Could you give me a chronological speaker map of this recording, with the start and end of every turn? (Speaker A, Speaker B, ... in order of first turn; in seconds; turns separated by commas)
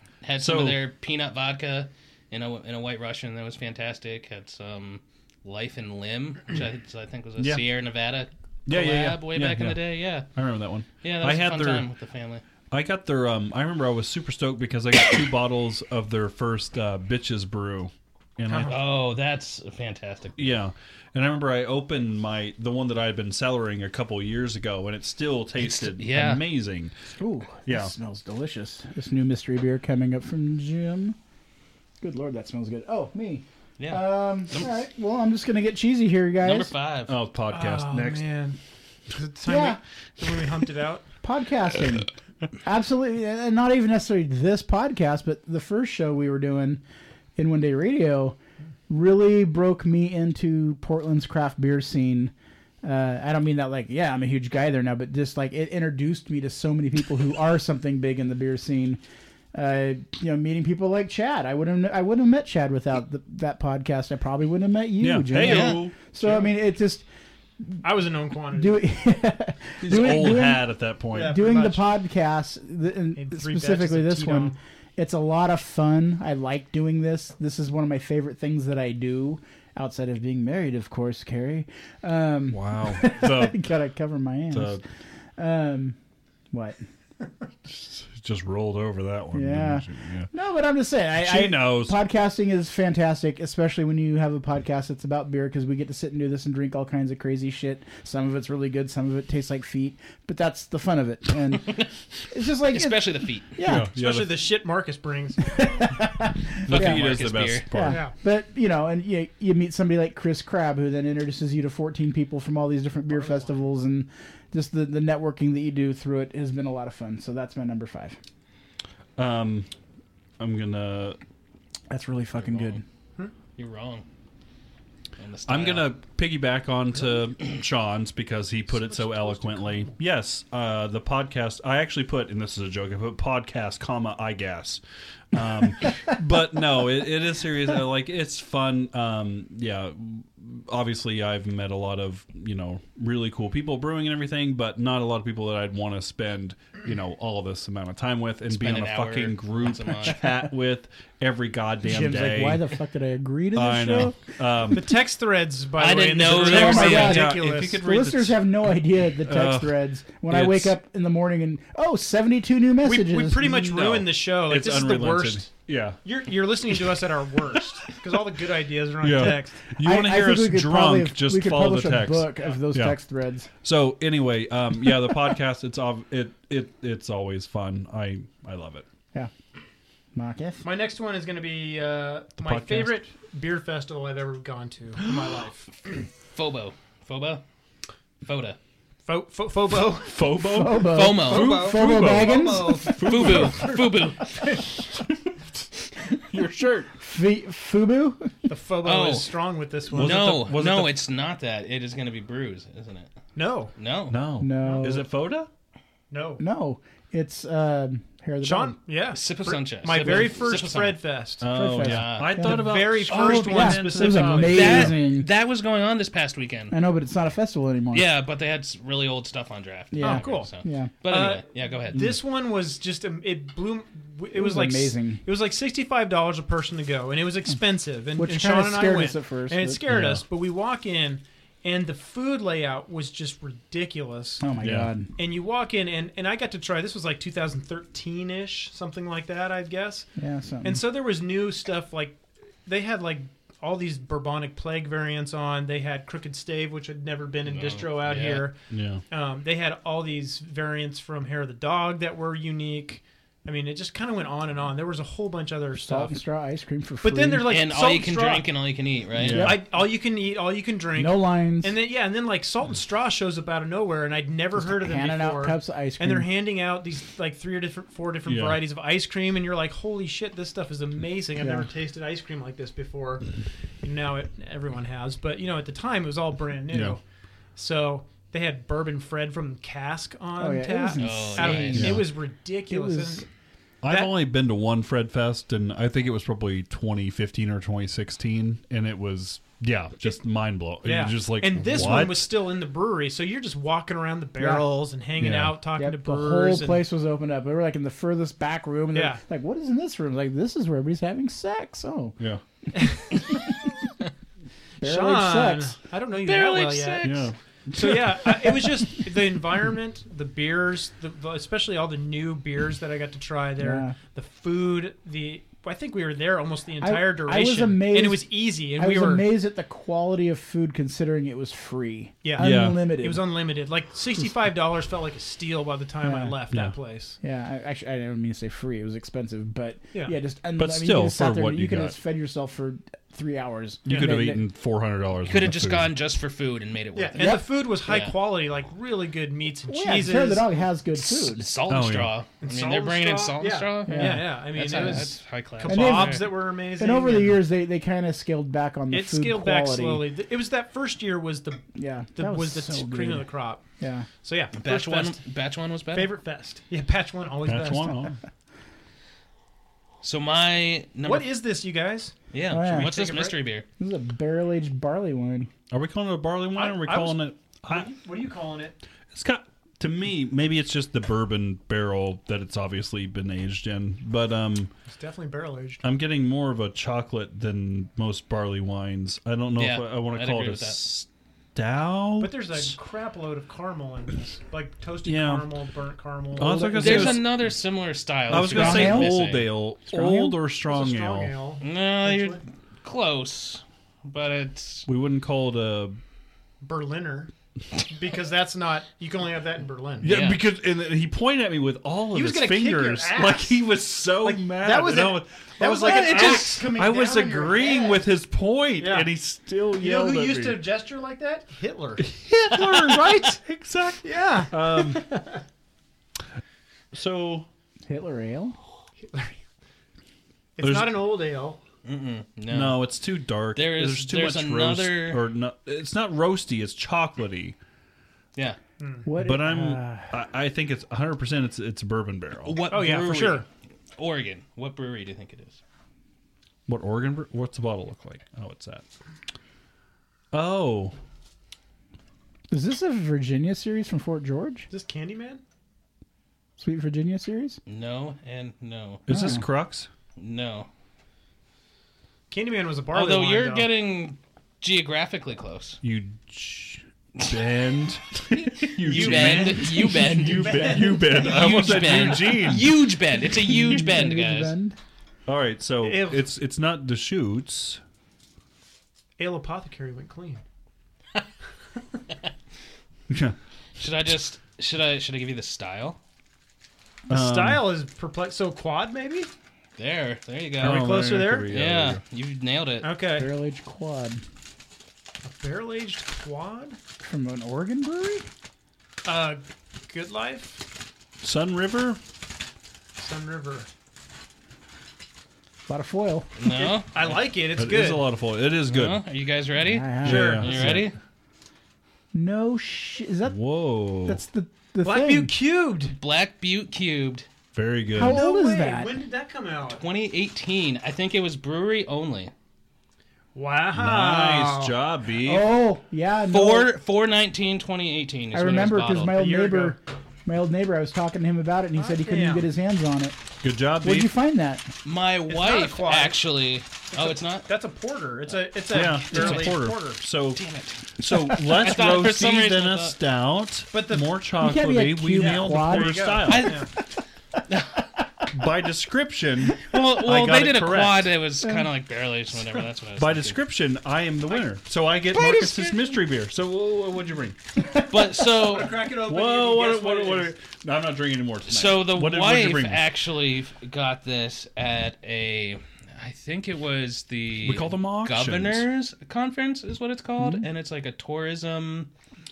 Speaker A: 0.2-10.3, Speaker B: 0.4-0.8, Speaker B: 7.4-7.6, Speaker B: 8.7-11.9, Speaker A: 11.0-12.4, Speaker B: 12.7-18.8, Speaker C: 18.5-18.8, Speaker A: 18.7-20.4, Speaker B: 20.4-26.9, Speaker A: 25.6-26.4, Speaker D: 27.2-31.2, Speaker B: 27.6-27.9, Speaker D: 32.0-36.7, Speaker A: 33.8-34.7, Speaker A: 36.4-37.1, Speaker B: 37.1-38.3, Speaker C: 37.5-38.6, Speaker C: 39.1-41.0, Speaker D: 39.5-39.8, Speaker D: 41.2-42.1, Speaker D: 42.6-46.8, Speaker D: 47.4-48.4, Speaker D: 48.9-52.3, Speaker D: 52.8-59.0, Speaker D: 59.5-67.0, Speaker B: 65.0-66.0, Speaker A: 65.4-65.8, Speaker C: 66.2-66.5, Speaker C: 67.8-68.8, Speaker D: 68.5-84.8, Speaker B: 69.8-71.4, Speaker C: 71.1-71.9, Speaker C: 73.2-74.6, Speaker B: 82.5-83.6, Speaker B: 84.5-84.8, Speaker D: 85.4-86.0, Speaker D: 86.5-86.8, Speaker B: 87.7-90.3, Speaker D: 89.3-103.9, Speaker B: 91.2-92.0, Speaker A: 102.7-103.5, Speaker B: 103.6-104.4, Speaker C: 103.9-105.7, Speaker D: 105.5-107.1, Speaker B: 106.7-108.0, Speaker A: 106.7-107.7, Speaker D: 107.7-118.2, Speaker C: 107.8-108.1, Speaker B: 119.2-119.7, Speaker B: 120.4-121.2, Speaker D: 121.9-122.8, Speaker A: 122.4-122.8, Speaker A: 123.6-124.0, Speaker A: 125.2-125.9, Speaker B: 125.5-134.8, Speaker C: 128.7-130.0, Speaker B: 135.3-152.6, Speaker A: 148.5-150.3, Speaker D: 151.8-154.2, Speaker B: 153.6-154.9, Speaker C: 154.7-157.8, Speaker A: 155.8-157.3, Speaker B: 156.4-158.4, Speaker D: 156.4-163.7, Speaker B: 159.2-159.7, Speaker B: 160.3-160.8, Speaker C: 162.8-165.5, Speaker B: 163.6-166.0, Speaker C: 166.0-169.6, Speaker B: 169.0-173.0, Speaker D: 169.8-173.5, Speaker B: 173.6-178.9, Speaker D: 180.2-180.6, Speaker C: 180.6-185.7, Speaker B: 182.4-183.0, Speaker A: 186.3-187.4, Speaker A: 188.2-188.6, Speaker C: 189.1-190.3, Speaker B: 190.0-193.8, Speaker D: 190.4-193.1, Speaker A: 190.8-191.6, Speaker C: 191.2-194.7, Speaker A: 192.8-194.6, Speaker B: 196.3-196.9, Speaker D: 197.0-198.3, Speaker C: 198.5-200.4, Speaker A: 198.8-199.4, Speaker B: 199.9-201.0, Speaker A: 199.9-203.1, Speaker C: 203.3-203.7, Speaker A: 203.8-204.2, Speaker B: 204.1-205.5, Speaker D: 204.4-205.1, Speaker C: 206.1-206.4, Speaker D: 206.4-208.8, Speaker C: 208.4-211.4, Speaker A: 209.1-211.0, Speaker B: 211.4-214.9, Speaker D: 211.5-215.3, Speaker A: 211.8-212.4, Speaker C: 212.4-214.8, Speaker A: 213.1-213.7, Speaker A: 214.4-216.8, Speaker D: 216.7-218.1, Speaker A: 217.9-222.1, Speaker D: 219.9-220.9, Speaker C: 220.0-220.5, Speaker C: 221.0-234.5, Speaker D: 224.3-225.2, Speaker D: 228.2-229.8, Speaker B: 229.9-230.2, Speaker D: 234.4-235.1, Speaker B: 234.6-234.9, Speaker C: 235.2-240.1, Speaker D: 240.2-240.8, Speaker C: 240.6-248.6, Speaker A: 247.5-248.5, Speaker B: 248.7-249.0, Speaker C: 249.1-256.2, Speaker D: 255.9-257.5, Speaker C: 257.0-258.5, Speaker A: 257.5-259.6, Speaker B: 259.2-259.6, Speaker D: 259.3-259.6, Speaker C: 259.3-273.3, Speaker D: 261.0-261.8, Speaker D: 264.6-266.3, Speaker B: 268.3-268.6, Speaker D: 271.4-271.7, Speaker C: 273.8-277.0, Speaker B: 276.7-277.0, Speaker C: 277.6-283.3, Speaker D: 280.4-282.0, Speaker A: 281.0-282.1, Speaker B: 281.8-282.1, Speaker D: 282.7-283.2, Speaker B: 283.8-292.4, Speaker C: 283.9-284.1, Speaker C: 290.8-296.9, Speaker D: 294.4-294.7, Speaker B: 295.2-295.6, Speaker D: 295.8-302.2, Speaker C: 298.9-299.2, Speaker C: 302.7-303.2, Speaker D: 304.8-305.7, Speaker C: 304.8-319.3, Speaker A: 306.3-307.3, Speaker B: 307.0-308.5, Speaker D: 313.6-314.0, Speaker D: 316.8-323.2, Speaker C: 322.2-327.2, Speaker B: 322.4-322.8, Speaker D: 326.0-326.4, Speaker D: 327.2-334.4, Speaker B: 330.6-331.9, Speaker B: 333.9-335.9, Speaker A: 335.3-338.2, Speaker C: 336.9-340.5, Speaker D: 337.2-337.5, Speaker D: 339.7-341.5, Speaker A: 341.0-346.3, Speaker B: 341.7-342.1, Speaker C: 342.4-347.4, Speaker D: 343.9-345.0, Speaker D: 345.6-350.1, Speaker C: 348.9-353.6, Speaker D: 351.8-353.3, Speaker D: 353.8-354.1, Speaker C: 354.2-355.2, Speaker A: 354.6-356.1, Speaker C: 355.9-358.1, Speaker B: 357.5-358.2, Speaker A: 360.0-361.3, Speaker C: 361.0-362.1, Speaker A: 362.3-363.6, Speaker D: 362.5-362.9, Speaker C: 362.7-363.4, Speaker D: 363.8-365.5, Speaker B: 365.7-367.9, Speaker C: 366.5-368.8, Speaker B: 369.1-374.7, Speaker C: 374.9-375.8, Speaker B: 375.8-382.8, Speaker A: 379.6-380.9, Speaker C: 382.2-386.6, Speaker B: 385.1-385.5, Speaker B: 386.4-387.3, Speaker D: 386.4-387.2, Speaker A: 386.8-389.5, Speaker B: 388.3-391.3, Speaker D: 388.3-389.2, Speaker D: 389.9-390.4, Speaker C: 390.7-392.4, Speaker A: 391.6-394.9, Speaker B: 394.9-396.0, Speaker C: 396.6-397.3, Speaker C: 397.8-400.1, Speaker B: 400.0-410.6, Speaker A: 400.0-400.4, Speaker C: 402.1-403.6, Speaker C: 404.2-408.0, Speaker A: 405.9-406.5, Speaker C: 408.8-409.1, Speaker C: 409.8-412.1, Speaker B: 412.0-415.1, Speaker C: 412.7-413.2, Speaker C: 414.0-415.4, Speaker B: 416.9-417.5, Speaker D: 417.9-418.6, Speaker C: 419.1-419.4, Speaker C: 420.6-421.6, Speaker B: 420.6-421.0, Speaker A: 421.8-422.9, Speaker B: 422.5-427.6, Speaker A: 423.6-425.2, Speaker C: 428.8-429.2, Speaker D: 429.1-430.1, Speaker B: 429.2-432.7, Speaker A: 432.4-435.6, Speaker C: 432.7-433.4, Speaker B: 436.7-438.8, Speaker B: 440.3-440.9, Speaker D: 442.5-444.7, Speaker C: 444.7-445.4, Speaker D: 446.6-447.6, Speaker A: 447.7-449.1, Speaker B: 449.1-449.9, Speaker D: 449.1-449.4, Speaker A: 450.2-450.7, Speaker C: 452.3-453.7, Speaker A: 452.9-455.8, Speaker B: 455.8-462.8, Speaker A: 458.4-464.5, Speaker C: 458.8-462.0, Speaker D: 463.2-464.8, Speaker B: 465.3-467.8, Speaker C: 465.8-466.3, Speaker C: 469.2-470.4, Speaker B: 473.1-473.4, Speaker A: 473.8-476.0, Speaker B: 477.1-477.7, Speaker C: 477.1-479.3, Speaker A: 479.8-481.0, Speaker C: 480.6-481.5, Speaker B: 480.6-482.0, Speaker A: 481.5-482.9, Speaker C: 482.8-483.3, Speaker D: 483.2-484.2, Speaker C: 485.2-486.8, Speaker D: 487.0-488.3, Speaker C: 489.1-490.6, Speaker B: 491.2-492.0, Speaker C: 493.0-493.7, Speaker D: 495.7-496.3, Speaker A: 496.4-497.2, Speaker C: 496.5-498.1, Speaker B: 497.6-499.0, Speaker A: 498.7-501.0, Speaker D: 499.6-500.4, Speaker B: 500.0-500.9, Speaker C: 500.1-500.8, Speaker D: 502.1-503.4, Speaker B: 503.3-504.2, Speaker D: 504.1-505.3, Speaker C: 504.8-505.9, Speaker A: 506.0-507.3, Speaker B: 507.5-508.2, Speaker D: 507.9-508.9, Speaker C: 508.0-509.8, Speaker A: 509.8-512.3, Speaker C: 513.4-514.8, Speaker B: 513.8-515.5, Speaker D: 515.2-516.7, Speaker A: 516.3-519.2, Speaker D: 518.3-523.2, Speaker C: 519.1-519.8, Speaker C: 521.8-522.5, Speaker B: 523.4-524.1, Speaker D: 523.8-524.7, Speaker A: 524.8-527.5, Speaker C: 525.3-526.2, Speaker C: 526.9-530.0, Speaker B: 528.7-530.4, Speaker A: 529.1-529.6, Speaker A: 530.4-533.0, Speaker B: 531.0-536.6, Speaker C: 533.7-534.1, Speaker D: 534.4-536.1, Speaker C: 535.1-536.7, Speaker A: 536.2-536.8, Speaker A: 537.5-537.8, Speaker B: 538.3-541.1, Speaker A: 539.6-543.4, Speaker D: 541.4-541.7, Speaker B: 543.0-547.4, Speaker C: 545.3-545.7, Speaker A: 547.8-548.8, Speaker C: 548.2-550.3, Speaker B: 548.9-552.9, Speaker A: 551.5-561.9, Speaker B: 557.4-558.7